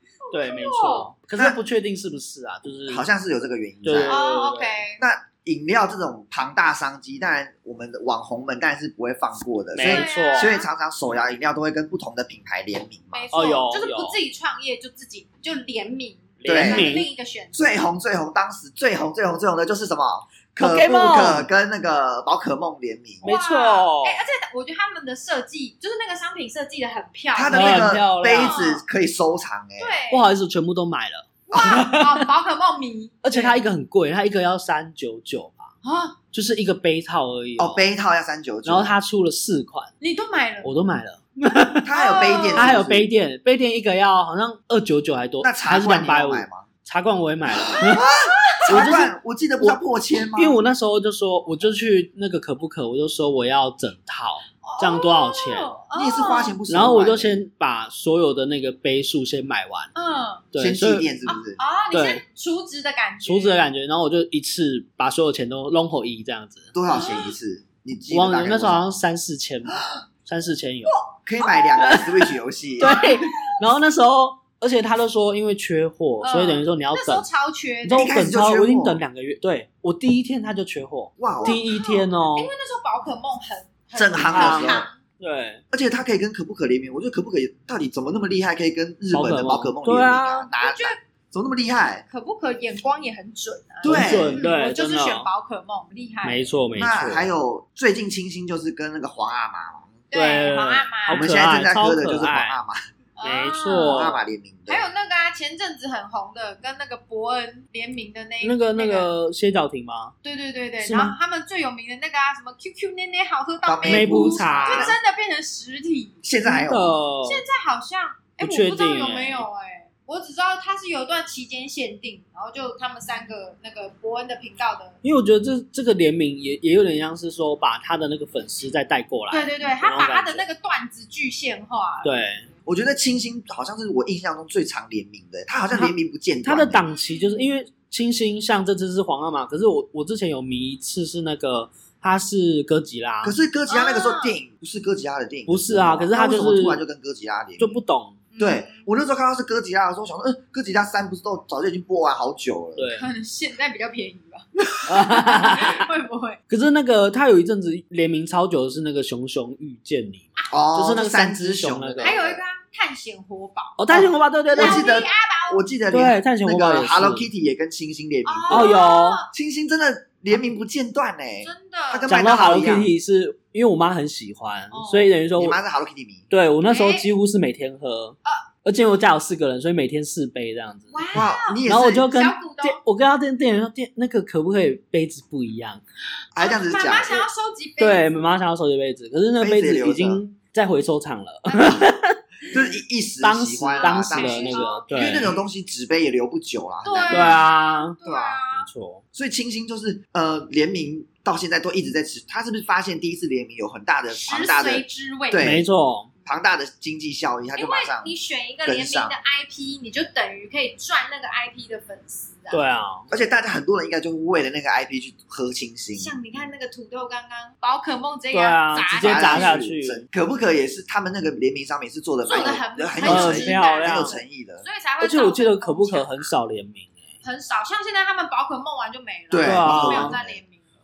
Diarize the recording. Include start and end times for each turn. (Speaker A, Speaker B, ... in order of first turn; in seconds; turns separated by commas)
Speaker A: 0.3-1.1, Speaker B: 0.3-3.1, Speaker C: 2.9-4.2, Speaker B: 3.8-4.8, Speaker A: 4.1-5.0, Speaker C: 5.0-13.5, Speaker B: 9.7-10.6, Speaker A: 9.8-10.7, Speaker A: 13.1-17.8, Speaker B: 13.3-14.2, Speaker B: 16.4-17.1, Speaker C: 16.4-17.0, Speaker C: 17.5-23.3, Speaker B: 20.6-21.5, Speaker B: 23.2-24.2, Speaker A: 23.2-28.8, Speaker C: 27.3-30.0, Speaker B: 27.5-28.6, Speaker A: 29.8-30.3, Speaker B: 30.1-32.3, Speaker A: 31.5-33.7, Speaker B: 33.2-35.7, Speaker A: 35.8-36.2, Speaker B: 36.3-37.9, Speaker C: 37.6-39.0, Speaker B: 38.6-39.9, Speaker A: 40.0-40.7, Speaker B: 40.6-41.9, Speaker C: 41.8-43.1, Speaker A: 41.9-42.7, Speaker B: 42.5-48.1, Speaker C: 45.4-46.7, Speaker C: 47.5-50.6, Speaker B: 48.7-49.8, Speaker B: 50.3-55.8, Speaker A: 54.6-56.6, Speaker C: 55.9-57.4, Speaker B: 56.7-59.9, Speaker A: 60.0-60.5, Speaker B: 60.5-61.1, Speaker C: 60.6-61.6, Speaker A: 61.3-63.6, Speaker B: 61.9-62.2, Speaker B: 63.2-66.7, Speaker C: 66.7-68.8, Speaker A: 66.9-67.3, Speaker B: 68.1-71.0, Speaker C: 69.7-70.0, Speaker C: 71.1-73.1, Speaker B: 71.8-72.1, Speaker A: 72.8-73.5, Speaker B: 72.8-77.3, Speaker A: 76.2-78.1, Speaker B: 77.8-82.5, Speaker C: 77.9-79.0, Speaker C: 81.2-81.6, Speaker A: 81.4-85.0, Speaker C: 84.0-84.9, Speaker B: 84.3-85.6, Speaker C: 85.7-92.0, Speaker B: 89.1-90.5, Speaker A: 90.6-91.0, Speaker A: 92.1-96.5, Speaker B: 93.8-95.3, Speaker C: 93.8-94.4, Speaker B: 96.2-97.3, Speaker C: 96.8-100.0, Speaker A: 100.1-101.3, Speaker B: 100.1-102.6, Speaker C: 101.1-102.8, Speaker A: 103.2-109.1, Speaker B: 103.2-104.2, Speaker C: 103.9-104.9, Speaker B: 108.4-110.2, Speaker A: 110.2-116.2, Speaker B: 110.8-111.2, Speaker C: 113.7-115.0, Speaker B: 113.8-115.0, Speaker C: 116.2-117.0, Speaker B: 116.5-117.5, Speaker A: 117.2-125.0, Speaker B: 118.4-119.5, Speaker B: 125.0-130.4, Speaker A: 129.3-132.2, Speaker B: 132.0-132.5, Speaker C: 132.7-136.8, Speaker B: 135.7-143.3, Speaker A: 136.8-137.5, Speaker C: 143.2-147.8, Speaker A: 143.7-144.4, Speaker B: 145.5-146.8, Speaker B: 147.6-148.2, Speaker A: 148.3-148.9, Speaker C: 148.4-152.9, Speaker B: 152.8-153.1, Speaker A: 152.9-156.4, Speaker B: 154.9-155.8, Speaker B: 156.5-162.2, Speaker C: 160.5-162.4, Speaker A: 162.0-163.8, Speaker B: 163.8-164.9, Speaker C: 163.9-168.8, Speaker A: 164.5-165.6, Speaker B: 165.9-167.3, Speaker A: 168.3-169.3, Speaker B: 168.5-169.2, Speaker C: 169.3-172.9, Speaker A: 171.4-172.1, Speaker B: 172.1-175.6, Speaker A: 174.7-175.2, Speaker C: 175.4-176.3, Speaker B: 176.3-181.1, Speaker A: 176.7-177.1, Speaker A: 180.9-182.8, Speaker C: 181.1-182.1, Speaker B: 181.7-185.8, Speaker C: 186.3-187.2, Speaker A: 186.4-188.2, Speaker B: 187.8-192.2, Speaker C: 189.4-190.2, Speaker A: 191.5-191.9, Speaker C: 192.5-197.4, Speaker B: 193.2-195.3, Speaker A: 193.8-195.4, Speaker A: 196.8-198.7, Speaker B: 197.1-198.0, Speaker C: 198.0-198.4, Speaker B: 198.5-199.0, Speaker C: 199.1-205.7, Speaker A: 204.1-205.6, Speaker B: 205.4-206.1, Speaker C: 206.2-208.1, Speaker A: 207.6-212.7, Speaker C: 208.7-209.2, Speaker B: 212.5-213.1, Speaker C: 213.1-216.2, Speaker A: 215.9-219.6, Speaker B: 218.3-220.0, Speaker C: 219.0-224.7, Speaker A: 222.2-226.3, Speaker B: 223.0-224.2, Speaker B: 225.0-227.1, Speaker A: 227.2-230.7, Speaker C: 229.3-230.4, Speaker B: 229.4-230.2